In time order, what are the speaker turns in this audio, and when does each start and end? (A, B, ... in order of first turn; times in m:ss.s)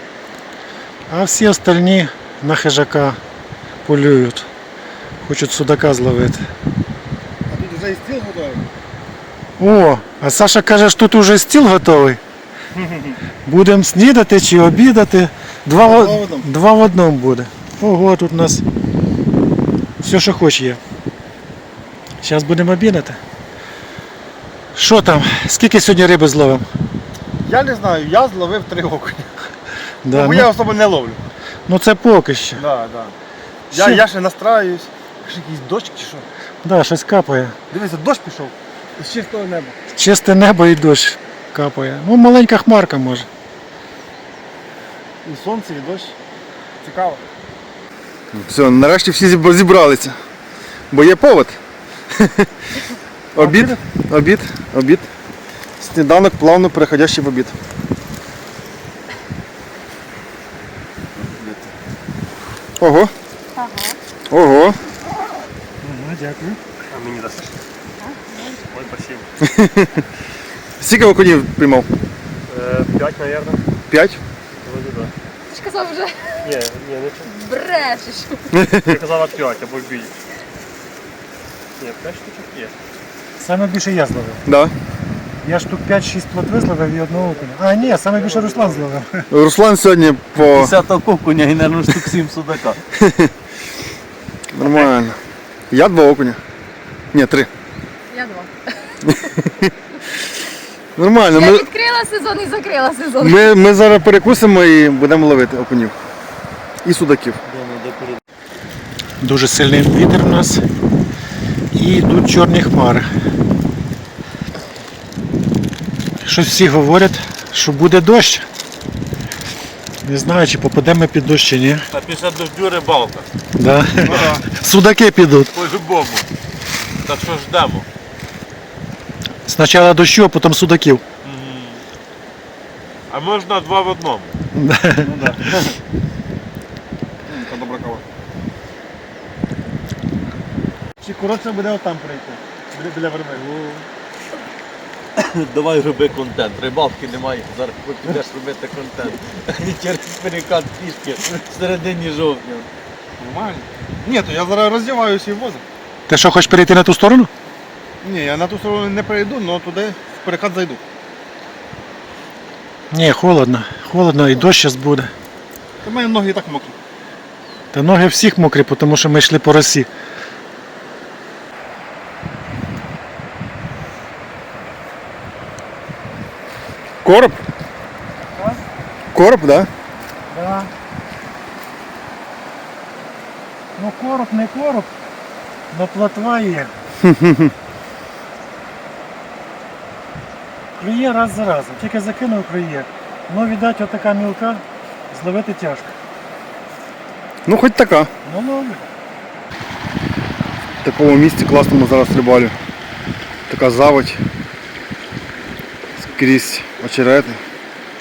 0:01.1-0:03.2 A
0:03.8-0:04.5 A
0:05.2-0:06.4 A
0:07.5-0:08.6 B
0:09.6-0:12.2 A
0:12.7-0:13.2 B
0:13.4-0:18.6 A
0:15.8-0:16.5 B
0:20.0-0:20.8 A
0:22.2-0:23.2 A
0:24.8-0:26.7 A
0:27.4-0:29.3 B
0:30.0-0:30.5 A
0:30.1-0:31.2 B
0:31.7-0:32.6 A
0:32.6-0:33.2 B
0:33.7-0:36.3 B
0:33.7-0:34.0 A
0:36.6-0:37.6 A
0:37.7-0:39.8 B
0:39.9-0:43.3 A
0:45.2-0:46.2 B
0:46.8-0:47.2 B
0:48.3-0:50.2 B
0:50.9-0:52.5 B
0:53.3-0:55.1 B
0:53.4-0:53.7 A
0:55.8-0:57.6 B
1:01.2-1:01.7 C
1:02.8-1:03.1 B
1:03.6-1:04.0 D
1:04.3-1:04.8 B
1:05.8-1:06.6 A
1:06.9-1:07.6 E
1:08.0-1:08.6 D
1:08.6-1:09.3 E
1:09.4-1:10.1 B
1:10.8-1:11.9 B
1:12.5-1:13.6 E
1:13.9-1:14.2 B
1:14.6-1:15.1 E
1:15.5-1:16.4 D
1:16.4-1:17.7 E
1:17.3-1:18.5 D
1:18.5-1:19.0 B
1:18.8-1:20.2 E
1:21.8-1:22.8 E
1:23.4-1:24.4 A
1:24.5-1:24.7 B
1:25.4-1:29.3 A
1:27.2-1:28.9 E
1:29.3-1:30.8 B
1:30.4-1:32.8 C
1:33.0-1:33.3 B
1:34.5-1:35.2 B
1:34.6-1:34.9 C
1:35.7-1:36.4 B
1:37.1-1:37.5 B
1:38.1-1:39.0 D
1:39.0-1:39.7 B
1:41.0-1:41.7 B
1:41.3-1:43.4 D
1:43.2-1:46.0 B
1:46.8-1:47.4 B
1:47.4-1:48.2 C
1:49.2-1:50.6 A
1:51.7-1:53.1 A
1:56.2-1:58.5 A
2:00.0-2:01.9 A
2:01.9-2:03.3 C
2:03.6-2:05.5 A
2:04.0-2:04.4 B
2:05.5-2:06.3 C
2:07.0-2:07.9 C
2:09.5-2:11.0 A
2:11.2-2:11.8 C
2:13.1-2:14.4 C
2:14.6-2:15.1 A
2:15.0-2:15.7 B
2:17.2-2:18.0 B
2:21.0-2:23.4 B
2:23.4-2:23.8 C
2:25.2-2:32.7 C
2:33.2-2:35.6 B
2:36.1-2:37.3 A
2:38.0-2:40.8 B
2:42.9-2:45.1 A
2:45.8-2:46.8 B
2:47.7-2:49.9 A
2:57.0-2:57.4 B
2:58.4-2:58.6 A
2:59.1-2:59.7 B
3:00.3-3:00.7 A
3:03.8-3:04.9 A
3:05.7-3:06.7 A
3:07.0-3:07.5 B
3:10.8-3:16.0 A
3:17.5-3:18.1 B
3:18.2-3:18.9 A
3:20.8-3:22.6 B
3:23.5-3:24.2 B
3:26.0-3:27.4 B